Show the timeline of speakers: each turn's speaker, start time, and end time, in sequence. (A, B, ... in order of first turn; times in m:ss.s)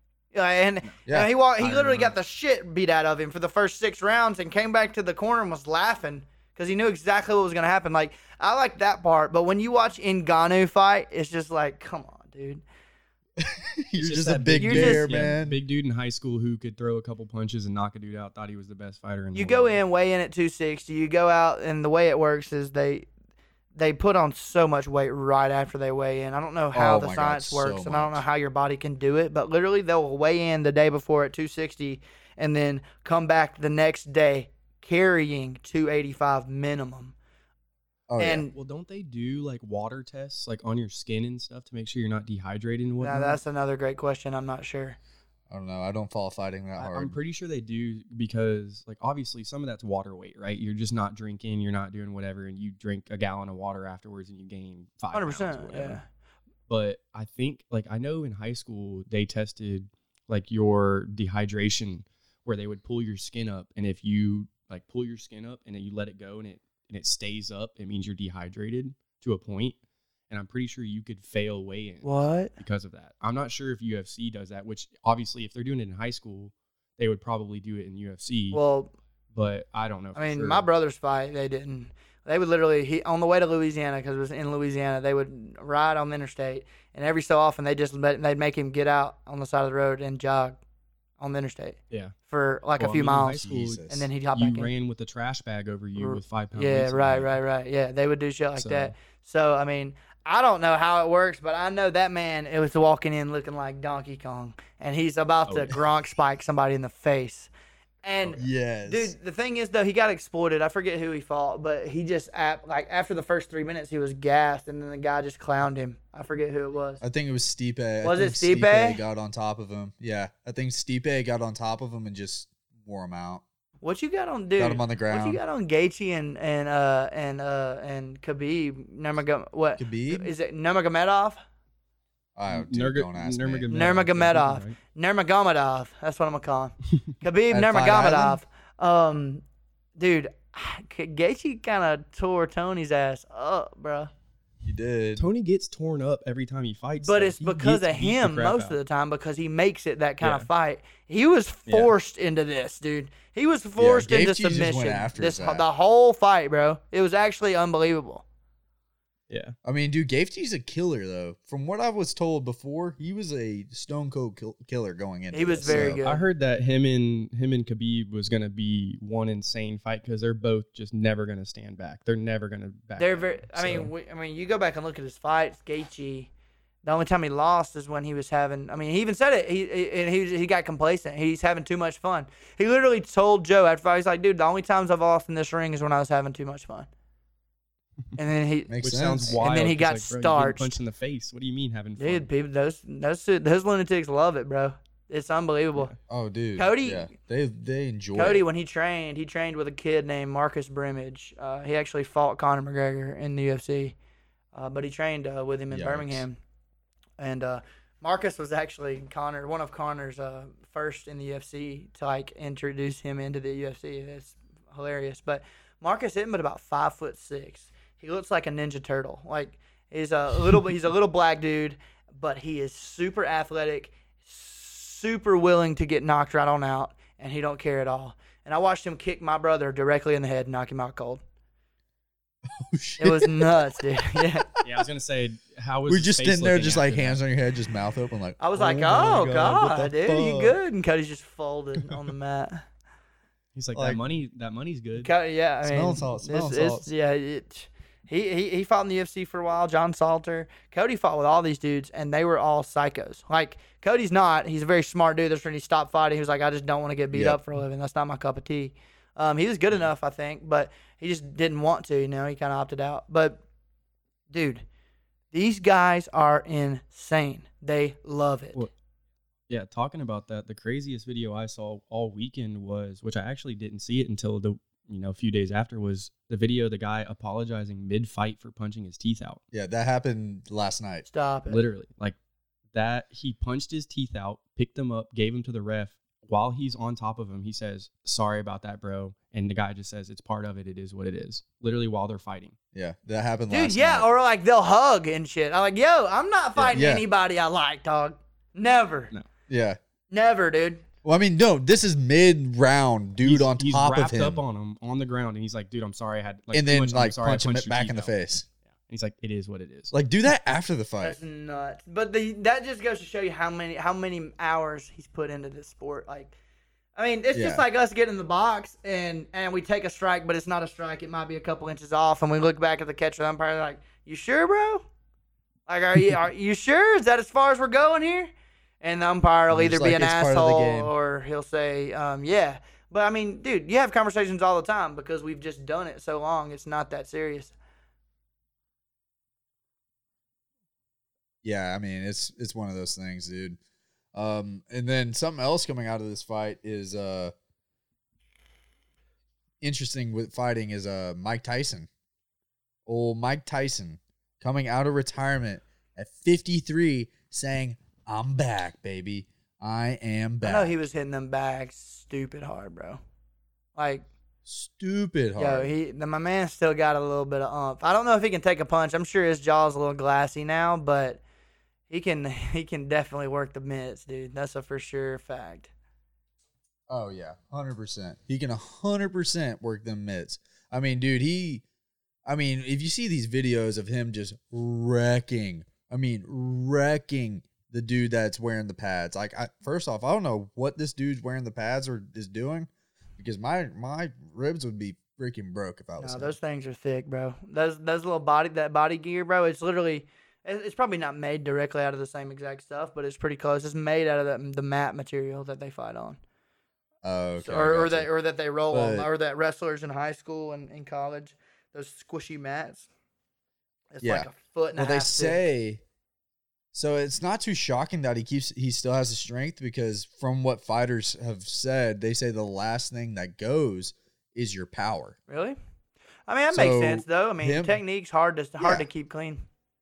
0:00.3-0:12.6 A
0:01.1-0:02.1 B
0:13.4-0:15.6 B
0:14.0-0:19.8 C
0:14.6-0:15.1 A
0:19.4-0:23.1 A
0:23.8-0:37.1 A
0:26.7-0:28.2 B
0:38.1-0:38.5 B
0:38.2-0:38.5 A
0:38.5-0:43.4 C
0:43.0-0:45.0 A
0:45.5-0:47.2 B
0:46.8-0:56.0 C
0:55.1-0:56.0 A
0:56.7-1:09.8 C
1:10.3-1:18.6 C
1:12.0-1:12.5 A
1:18.5-1:18.9 A
1:19.3-1:20.7 C
1:20.1-1:30.6 A
1:31.2-1:31.8 A
1:32.3-1:34.7 A
1:32.8-1:37.4 C
1:33.4-1:34.1 B
1:36.0-1:47.5 A
1:38.6-1:38.9 C
1:45.5-1:45.7 C
1:48.0-1:57.0 A
1:48.4-1:49.1 B
1:57.0-2:03.4 B
1:58.0-1:59.0 A
2:03.8-2:11.4 A
2:04.6-2:05.4 B
2:09.8-2:10.3 B
2:12.4-2:13.7 B
2:12.5-2:14.8 C
2:13.7-2:19.4 A
2:17.5-2:18.4 B
2:20.0-2:24.1 A
2:24.6-2:25.3 B
2:25.2-2:28.8 C
2:27.0-2:38.2 A
2:30.2-2:30.5 C
2:31.7-2:31.9 C
2:33.8-2:35.6 B
2:39.3-2:39.6 C
2:39.6-2:46.0 B
2:45.3-2:46.3 A
2:45.6-2:53.9 C
2:53.0-2:56.3 A
2:56.8-3:06.9 A
3:08.2-3:08.7 A
3:08.7-3:09.4 B
3:08.8-3:12.3 C
3:09.2-3:10.8 A
3:12.0-3:15.9 A
3:16.1-3:18.4 B
3:16.6-3:17.1 A
3:18.1-3:24.0 A
3:24.5-3:26.4 A
3:25.7-3:26.3 B
3:27.2-3:51.2 A
3:52.4-3:53.6 B
3:53.0-3:54.5 A
3:54.2-3:54.6 B
3:54.6-3:57.2 C
3:55.9-4:00.6 B
3:58.4-4:02.6 A
4:03.6-4:05.1 C
4:03.7-4:04.0 B
4:05.0-4:23.4 A
4:05.6-4:06.9 B
4:17.1-4:17.4 B
4:24.3-4:24.6 A
4:25.3-4:28.6 A
4:29.5-4:39.4 C
4:39.5-4:41.1 B
4:41.1-4:41.6 A
4:41.5-4:42.2 C
4:42.7-4:52.6 C
4:52.7-4:54.1 B
4:53.5-4:59.1 A
4:56.6-4:57.0 B
4:59.5-4:59.8 B
5:00.1-5:00.8 A
5:01.0-5:04.4 B
5:03.2-5:08.1 C
5:06.5-5:08.4 B
5:08.8-5:09.9 C
5:09.9-5:11.2 B
5:11.0-5:16.3 A
5:17.0-5:24.9 A
5:17.3-5:17.6 B
5:25.7-5:37.5 A
5:29.5-5:30.9 B
5:41.4-5:43.6 B
5:44.1-5:47.3 B
5:49.6-5:51.9 B
5:52.9-6:00.8 B
6:00.4-6:03.0 A
6:03.8-6:04.1 A
6:04.4-6:05.7 B
6:05.4-6:11.2 A
6:11.9-6:15.7 A
6:16.9-6:21.6 B
6:22.3-6:36.4 B
6:36.0-6:46.2 A
6:47.0-6:48.1 B
6:47.4-6:52.9 A
6:48.7-6:49.1 B
6:53.9-6:55.4 A
6:54.0-6:55.8 B
6:56.7-7:05.2 B
7:05.3-7:05.6 A
7:06.3-7:09.4 A
7:06.5-7:07.8 B
7:08.6-7:08.9 B